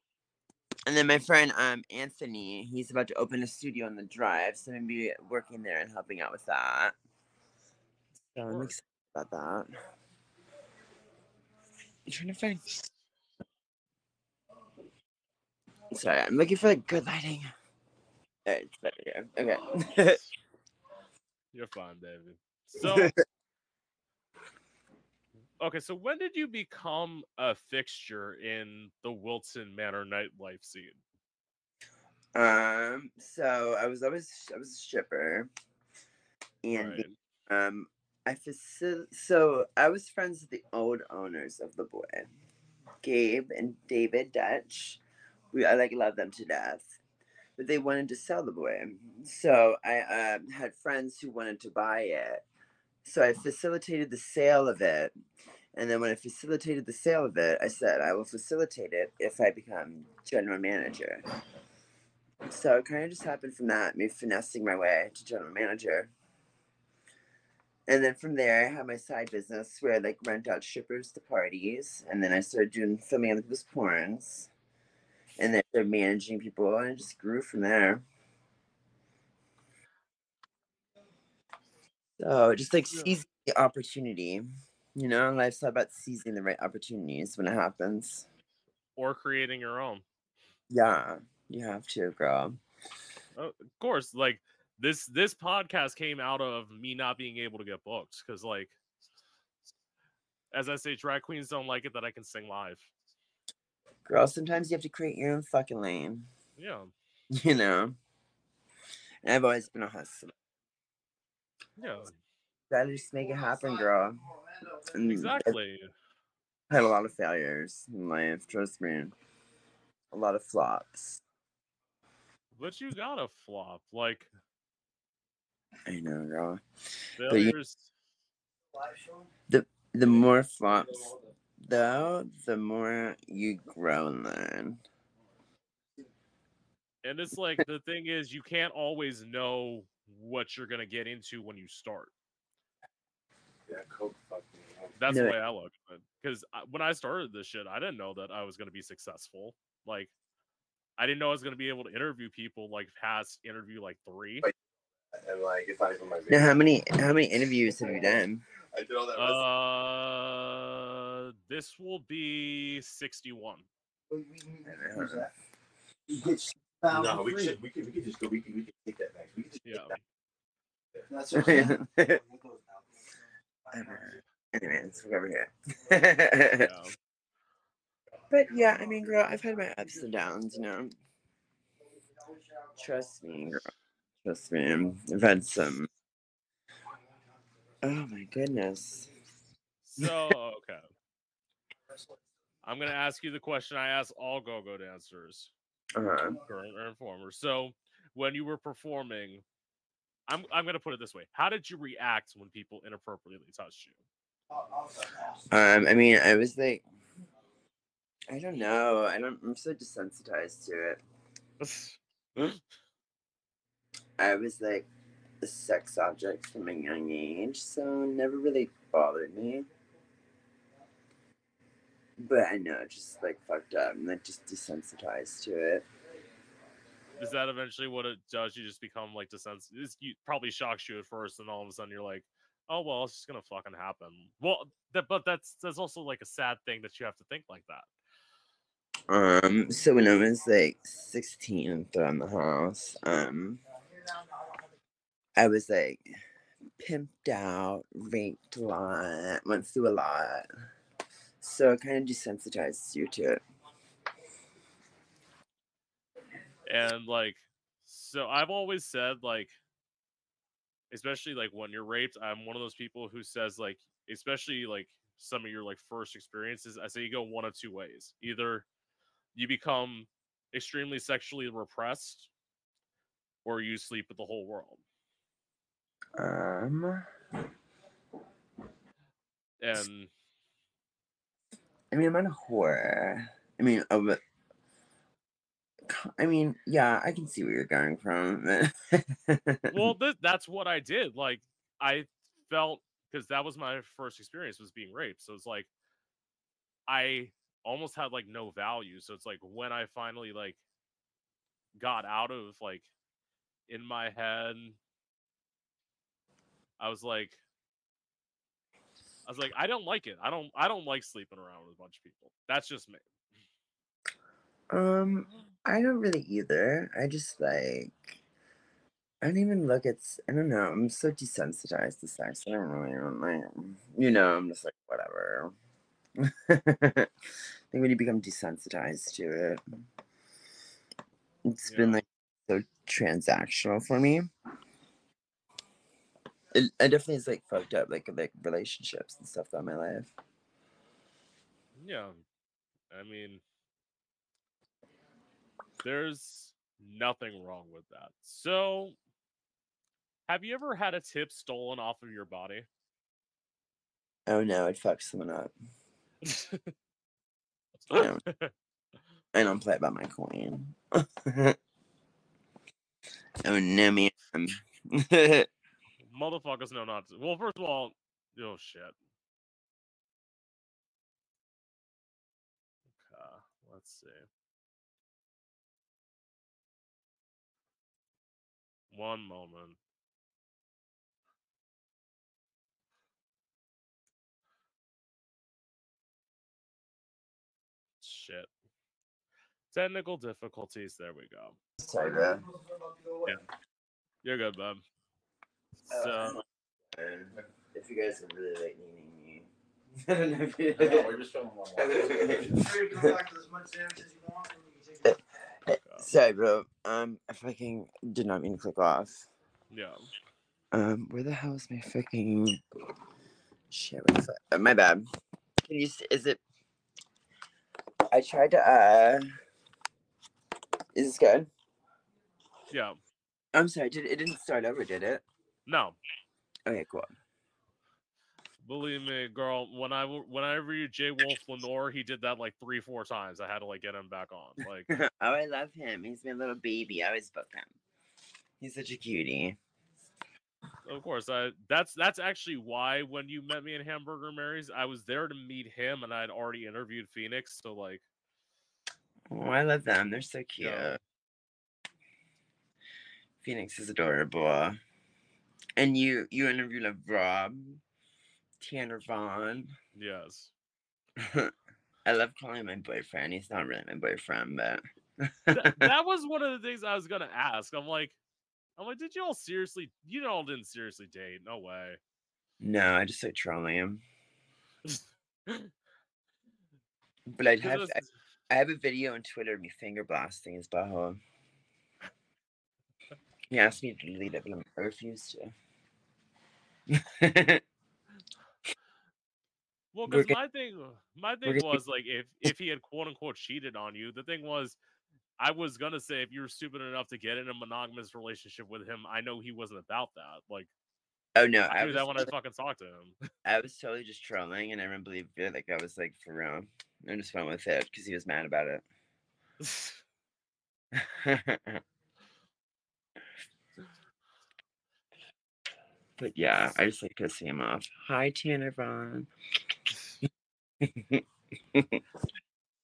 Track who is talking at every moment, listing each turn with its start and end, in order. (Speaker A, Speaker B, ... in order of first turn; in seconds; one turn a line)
Speaker A: 0.8-6.9
Speaker A: 8.3-9.7
Speaker B: 8.5-8.7
Speaker A: 12.1-12.6
Speaker A: 15.9-17.5
Speaker A: 18.4-20.2
Speaker B: 21.5-23.1
Speaker A: 22.8-23.1
Speaker B: 25.6-31.0
Speaker A: 32.3-35.5
Speaker A: 36.6-42.3
Speaker B: 36.7-37.1
Speaker A: 43.0-45.0
Speaker A: 45.5-47.0
Speaker A: 47.6-52.4
Speaker A: 53.0-55.1
Speaker A: 55.7-61.2
Speaker A: 62.5-66.1
Speaker A: 67.9-74.5
Speaker A: 75.4-78.0
Speaker A: 82.2-88.2
Speaker B: 89.0-90.0
Speaker A: 90.7-92.6
Speaker B: 93.3-98.8
Speaker B: 100.5-102.9
Speaker A: 104.0-106.3
Speaker B: 106.6-106.9
Speaker A: 107.3-108.0
Speaker A: 109.2-110.3
Speaker B: 111.8-112.1
Speaker A: 112.7-114.3
Speaker A: 114.8-115.5
Speaker B: 115.0-115.9
Speaker A: 116.7-119.1
Speaker A: 120.1-121.2
Speaker B: 122.5-124.3
Speaker A: 125.8-126.6
Speaker B: 127.2-127.9
Speaker A: 127.3-127.5
Speaker C: 128.8-129.3
Speaker A: 129.5-134.8
Speaker B: 137.0-142.1
Speaker D: 143.7-145.0
Speaker B: 145.0-150.1
Speaker A: 145.1-145.3
Speaker B: 151.0-154.5
Speaker D: 155.1-156.5
Speaker A: 156.3-158.4
Speaker D: 158.7-159.4
Speaker B: 159.2-163.7
Speaker C: 164.1-165.0
Speaker A: 164.6-165.3
Speaker C: 166.8-167.5
Speaker D: 166.9-170.0
Speaker B: 169.6-170.0
Speaker C: 171.1-172.8
Speaker A: 171.3-172.2
Speaker A: 173.7-176.7
Speaker B: 176.6-176.9
Speaker A: 178.3-180.9
Speaker A: 182.7-183.7
Speaker A: 184.2-185.9
Speaker A: 187.8-189.1
Speaker B: 189.8-190.9
Speaker B: 192.6-195.5
Speaker A: 195.9-196.4
Speaker B: 196.4-199.4
Speaker B: 200.3-204.0
Speaker A: 205.5-206.8
Speaker A: 208.3-211.0
Speaker B: 211.6-212.6
Speaker A: 214.2-214.9
Speaker A: 215.4-219.7
Speaker A: 222.2-225.8
Speaker B: 227.2-237.9
Speaker A: 239.1-243.6
Speaker A: 245.4-246.0
Speaker A: 246.8-250.5
Speaker A: 251.4-253.4
Speaker B: 256.6-259.6
Speaker B: 260.9-268.6
Speaker B: 269.3-272.3
Speaker B: 273.4-274.8
Speaker A: 276.2-277.1
Speaker B: 279.6-280.1
Speaker A: 281.9-284.2
Speaker A: 285.9-289.9
Speaker B: 289.7-295.7
Speaker B: 296.9-300.6
Speaker B: 301.8-302.9
Speaker B: 303.7-304.8
Speaker B: 306.8-307.4
Speaker B: 309.2-313.0
Speaker A: 314.7-318.1
Speaker A: 319.2-325.5
Speaker A: 326.2-327.1
Speaker A: 327.7-329.6
Speaker A: 331.4-334.3
Speaker B: 331.7-332.0
Speaker A: 336.5-340.1
Speaker B: 341.8-342.2
Speaker B: 342.9-343.4
Speaker B: 345.8-348.9
Speaker B: 350.3-352.7
Speaker A: 354.3-355.5
Speaker B: 356.2-356.7
Speaker B: 357.9-358.5
Speaker A: 357.9-358.2
Speaker A: 359.3-361.6
Speaker A: 363.4-365.5
Speaker B: 366.0-368.9
Speaker B: 373.0-374.2
Speaker B: 378.9-379.8
Speaker B: 388.0-388.5
Speaker B: 389.7-391.6
Speaker A: 391.8-392.5
Speaker B: 394.2-394.8
Speaker A: 395.9-396.4
Speaker B: 395.9-396.4
Speaker A: 396.9-399.5
Speaker A: 400.0-401.1
Speaker D: 400.7-402.8
Speaker A: 401.8-403.2
Speaker C: 402.6-404.6
Speaker A: 405.0-409.3
Speaker B: 405.8-406.1
Speaker B: 409.7-410.0
Speaker A: 410.7-412.6
Speaker A: 413.7-415.1
Speaker A: 415.6-416.4
Speaker A: 418.1-419.3
Speaker A: 420.9-421.5
Speaker B: 422.7-423.0
Speaker A: 423.5-425.2
Speaker B: 425.6-426.0
Speaker A: 426.6-427.1
Speaker B: 428.6-434.9
Speaker A: 434.9-437.7
Speaker A: 438.6-439.6
Speaker B: 440.9-448.0
Speaker A: 449.3-451.0
Speaker B: 450.6-451.0
Speaker A: 453.4-454.8
Speaker A: 455.8-457.8
Speaker A: 458.6-459.7
Speaker B: 459.9-460.5
Speaker A: 461.2-461.5
Speaker A: 462.1-465.9
Speaker B: 465.5-468.2
Speaker B: 468.8-472.0
Speaker A: 472.6-474.0
Speaker B: 474.9-475.7
Speaker A: 477.3-478.0
Speaker B: 477.6-478.1
Speaker A: 478.5-481.2
Speaker A: 483.5-485.5
Speaker A: 486.9-487.6
Speaker B: 489.9-494.8
Speaker A: 490.1-490.3
Speaker A: 491.5-491.8
Speaker B: 495.4-500.7
Speaker A: 501.4-502.3
Speaker B: 501.7-503.2
Speaker A: 503.4-508.8
Speaker B: 509.6-510.0
Speaker A: 510.9-511.8
Speaker A: 516.2-519.3
Speaker A: 520.8-522.0